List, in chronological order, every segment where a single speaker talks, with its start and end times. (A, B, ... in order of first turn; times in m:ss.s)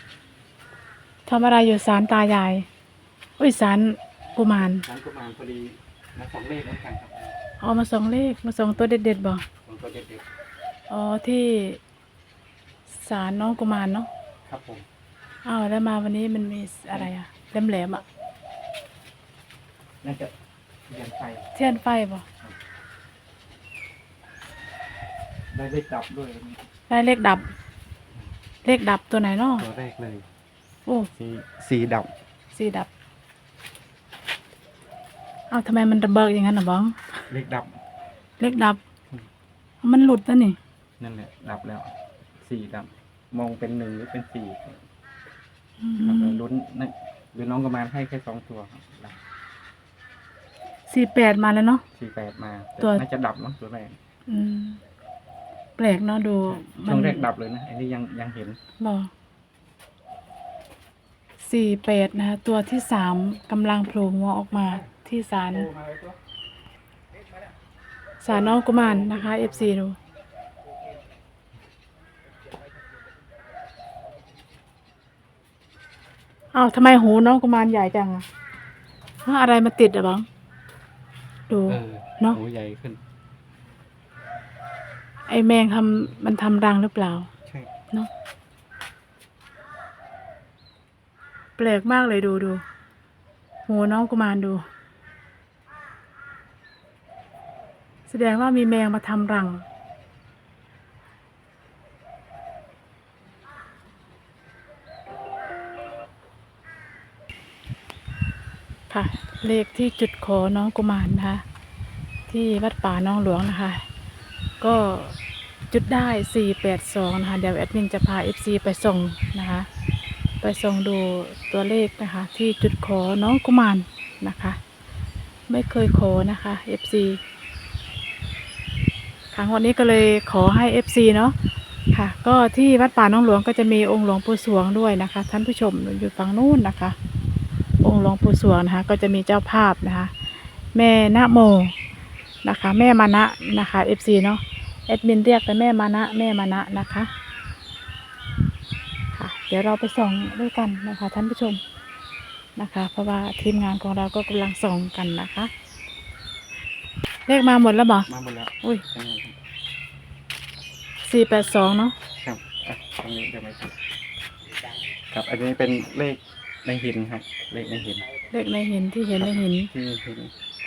0:01.2-0:02.7 A
0:03.4-0:04.8 A
0:04.8-0:07.3 B
0:07.6-0:09.4 A
0:09.6-0:10.3 B
0:10.9-0:11.8 A
0:13.0-0:14.1 A
0:14.4-0:14.8 B
0:15.4-0:18.0 A
0:20.0-0:20.3 B
0:20.9-0:21.5 B
0:21.5-0:22.2 A
0:25.5-0:26.6 B
0:26.9-0:27.5 A
0:28.6-0:29.6 A
0:29.6-0:30.2 B
0:31.2-0:32.1 B
0:32.5-0:32.9 A
0:35.5-0:37.2 A
0:37.3-0:37.8 B
0:38.4-0:38.8 A
0:39.8-0:40.6 A
0:41.0-0:44.8 B
0:45.8-0:46.4 A
0:46.0-0:49.2 B
0:50.9-0:51.8 A
0:52.0-0:54.0 B
0:54.3-0:54.8 A
0:55.8-0:57.2 A
0:56.5-0:58.6 B
0:58.8-0:59.1 A
1:01.4-1:05.7 A
1:05.5-1:06.2 B
1:08.2-1:10.0 A
1:16.5-1:18.2 A
1:19.2-1:20.3 A
1:21.5-1:22.4 A
1:21.7-1:23.0 B
1:25.3-1:27.3 A
1:31.6-1:32.6 A
1:33.7-1:34.6 A
1:38.1-1:39.6 A
1:48.9-1:51.4 A
1:52.3-1:53.8 A
1:54.6-1:55.2 A
1:55.7-1:59.7 A
2:00.4-2:04.6 A
2:05.5-2:07.2 A
2:09.3-2:11.4 A
2:11.9-2:17.0 A
2:17.8-2:20.1 A
2:20.7-2:21.7 A
2:22.4-2:27.1 A
2:29.1-2:31.6 A
2:32.6-2:35.5 A
2:37.3-2:38.1 A
2:38.1-2:39.4 B
2:41.0-2:42.0 A
2:42.2-2:43.7 B
2:45.1-2:48.0 B
2:48.3-2:49.7 A
2:49.2-2:50.3 B